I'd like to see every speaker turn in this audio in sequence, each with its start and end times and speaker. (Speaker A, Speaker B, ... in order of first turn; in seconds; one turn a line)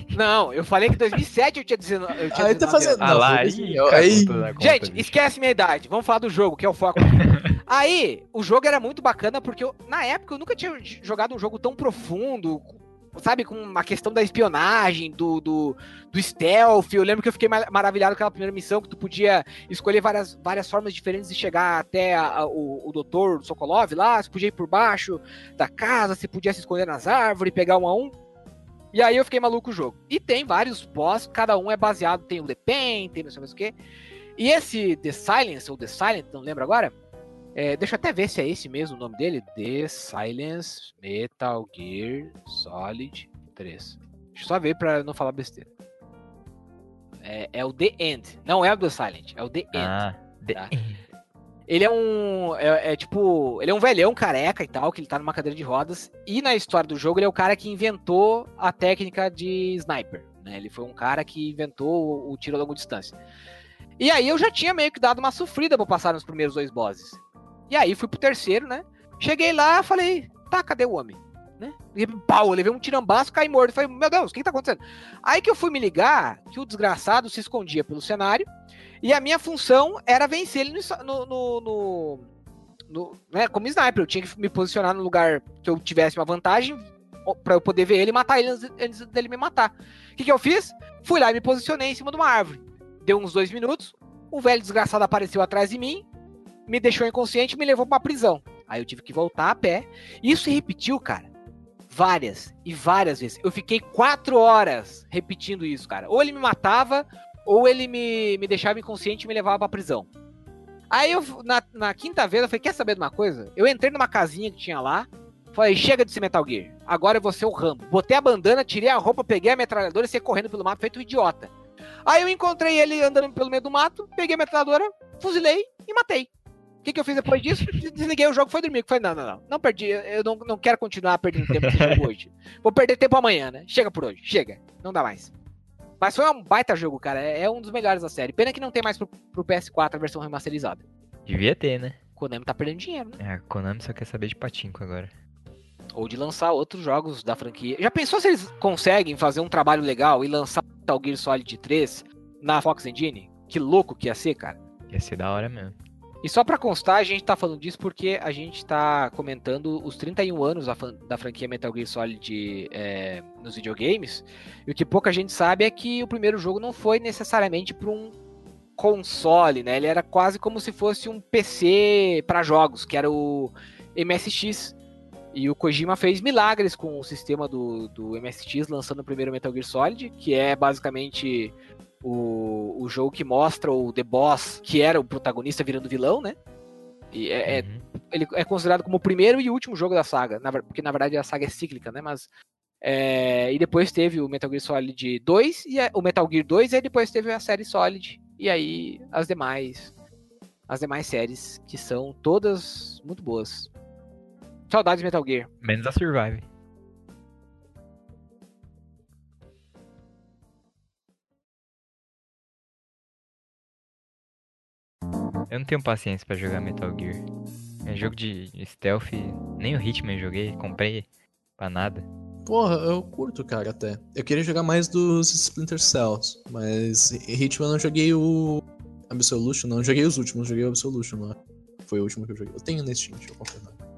Speaker A: 0.1-3.0
Speaker B: 2.3-4.5
Speaker C: 3.0-5.1
Speaker A: 4.6-28.1
Speaker A: 28.9-33.7
Speaker A: 34.4-36.9
Speaker A: 37.5-45.7
Speaker A: 47.2-50.0
Speaker C: 49.7-51.0
Speaker A: 51.7-63.1
Speaker A: 64.0-67.2
Speaker A: 67.7-78.5
Speaker A: 79.0-82.2
Speaker A: 82.9-96.0
Speaker A: 96.7-101.3
Speaker A: 101.9-110.1
Speaker A: 110.9-121.5
Speaker A: 122.1-126.3
Speaker A: 126.8-135.3
Speaker C: 131.7-131.9
Speaker A: 136.0-140.8
Speaker C: 141.3-142.0
Speaker A: 142.2-143.2
Speaker C: 143.2-145.1
Speaker A: 145.9-154.6
Speaker C: 154.9-155.8
Speaker A: 156.2-168.1
Speaker A: 168.8-174.8
Speaker A: 175.3-186.4
Speaker A: 187.1-192.3
Speaker C: 187.5-187.8
Speaker A: 192.8-199.9
Speaker A: 200.7-203.7
Speaker A: 204.7-205.5
Speaker C: 205.6-206.4
Speaker C: 215.5-217.2
Speaker C: 217.8-221.1
Speaker C: 221.6-222.1
Speaker B: 222.4-233.8